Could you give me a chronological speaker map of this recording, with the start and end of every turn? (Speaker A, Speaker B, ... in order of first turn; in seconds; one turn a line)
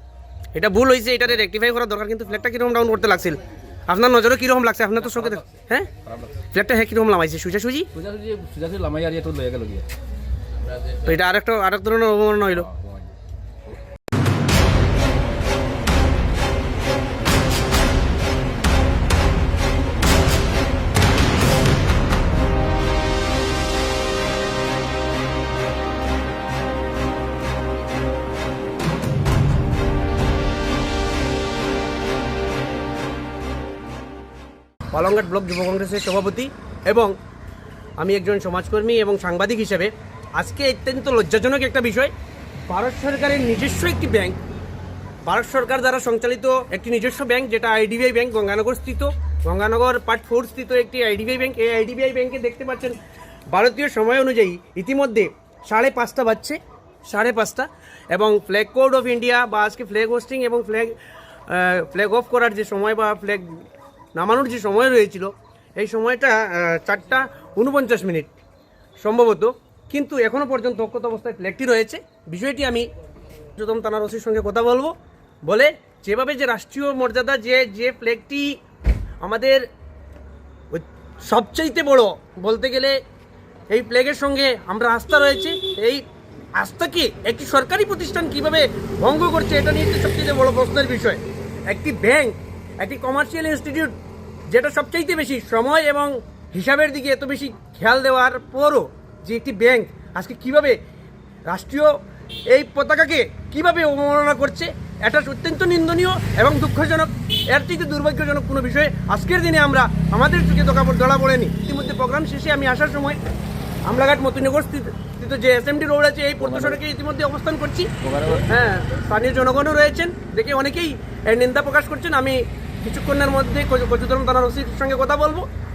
Speaker A: 0.6-5.9
Speaker B: 5.0-5.5
Speaker B: 6.0-6.5
Speaker A: 6.5-7.9
Speaker B: 7.9-9.9
Speaker A: 11.0-12.7
Speaker B: 12.6-13.1
Speaker A: 34.9-37.1
Speaker A: 38.0-42.1
Speaker A: 42.7-44.4
Speaker A: 45.3-53.0
Speaker A: 53.5-61.0
Speaker A: 61.5-63.6
Speaker A: 64.2-68.3
Speaker A: 69.0-72.9
Speaker A: 73.5-74.9
Speaker A: 75.5-78.6
Speaker A: 79.2-79.7
Speaker A: 80.7-83.0
Speaker A: 83.7-86.0
Speaker A: 86.6-94.0
Speaker A: 94.5-100.8
Speaker A: 101.5-102.0
Speaker A: 102.5-113.2
Speaker A: 113.9-125.5
Speaker B: 116.4-116.8
Speaker B: 118.0-118.5